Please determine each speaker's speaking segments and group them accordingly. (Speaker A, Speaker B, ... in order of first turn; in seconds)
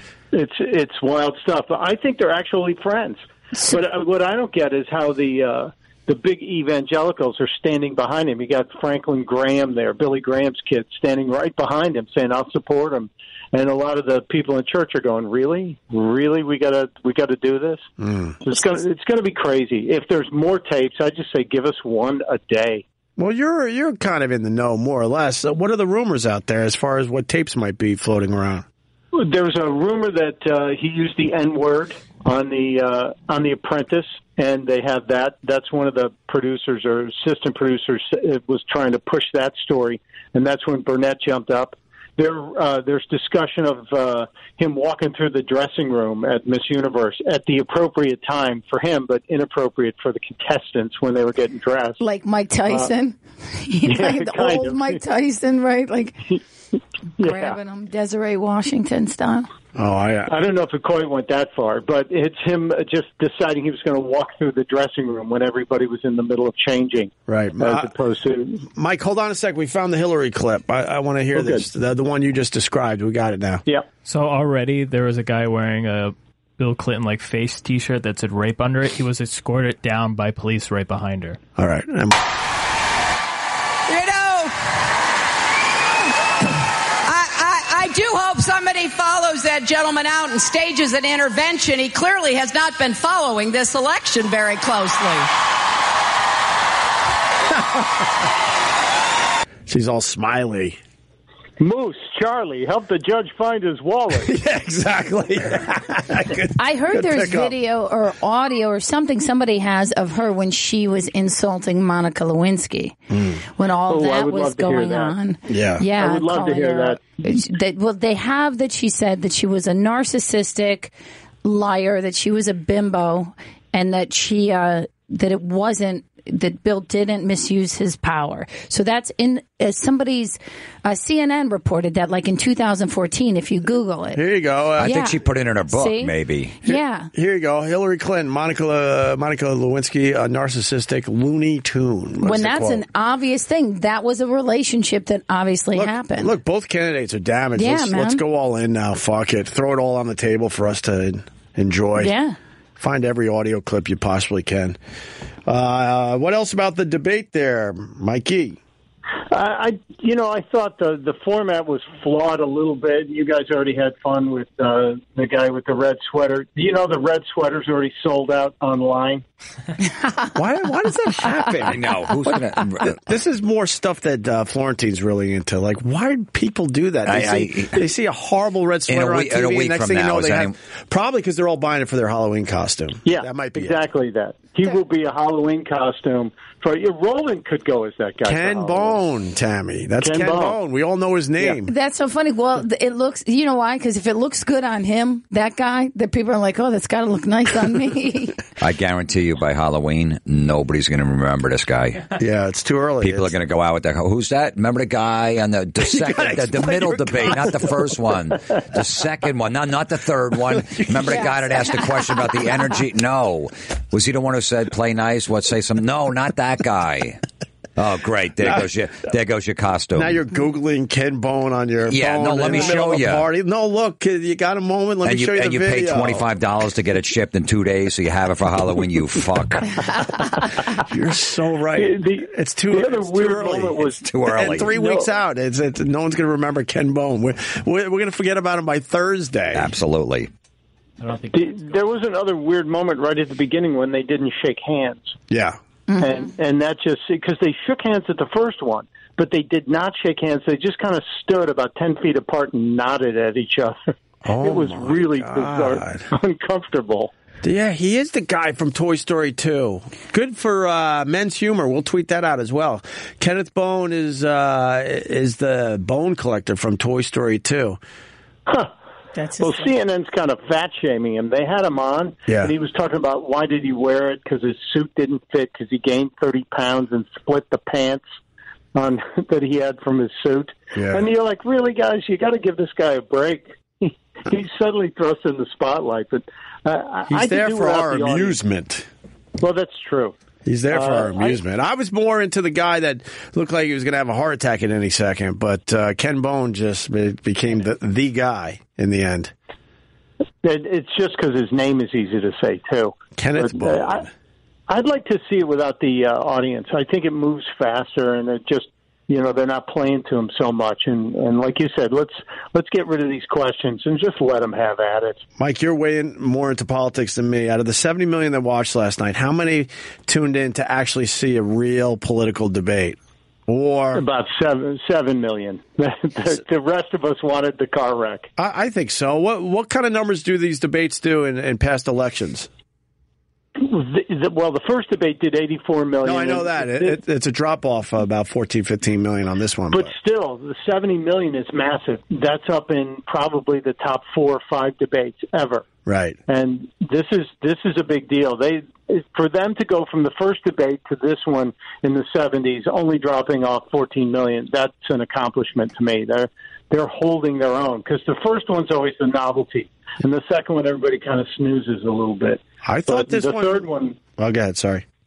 Speaker A: 0.3-17.8, 18.4-22.8, 29.1-52.0, 53.9-55.0, 57.2-57.6, 60.3-68.6, 71.3-71.6, 101.6-104.3, 113.9-115.2, 116.0-117.0, 159.3-169.2, 183.0-189.0, 190.0-190.6, 231.7-234.0, 234.7-235.1, 241.3-245.2, 246.0-257.1, 269.4-278.1, 278.7-288.4, 289.4-290.1, 290.7-291.4, 300.4-304.1, 304.7-315.2, 323.9-328.3, 333.6-337.0, 339.7-345.6, 346.3-364.0
Speaker B: 18.0-18.4, 23.2-28.6, 59.7-60.3, 67.3-67.9, 68.7-73.6, 81.6-82.2, 99.7-100.8, 104.1-107.5, 113.1-113.4, 115.5-115.9, 134.1-135.0, 136.6-142.8, 145.7-152.1, 152.8-154.8, 155.4-158.6, 170.3-183.8, 188.2-191.7, 202.2-203.3, 205.8-207.7, 219.9-226.2, 230.8-239.7, 245.3-245.6, 254.2-256.1, 257.4-267.8, 272.3-272.5, 280.7-281.1, 287.1-288.9, 290.4-299.3, 303.2-304.1, 315.4-324.0, 328.4-332.5, 336.0-339.9, 345.9-346.2, 362.6-363.6, 364.2-364.8
Speaker C: 52.0-56.2, 57.2-59.5, 106.6-113.0, 113.6-120.9, 121.4-134.2, 134.8-135.2, 135.7-137.1, 142.2-146.3, 147.6-148.2, 152.0-152.3, 191.6-198.4, 245.9-246.3, 269.1-269.7
Speaker D: 74.0-81.4, 241.0-241.7
Speaker E: 83.9-84.5, 87.0-95.3
Speaker F: 134.8-136.5, 171.7-172.9, 177.1-177.8, 178.9-180.5, 198.6-202.0, 203.0-217.2, 217.8-220.2, 221.9-223.2, 225.0-229.7, 234.1-234.7, 239.5-240.3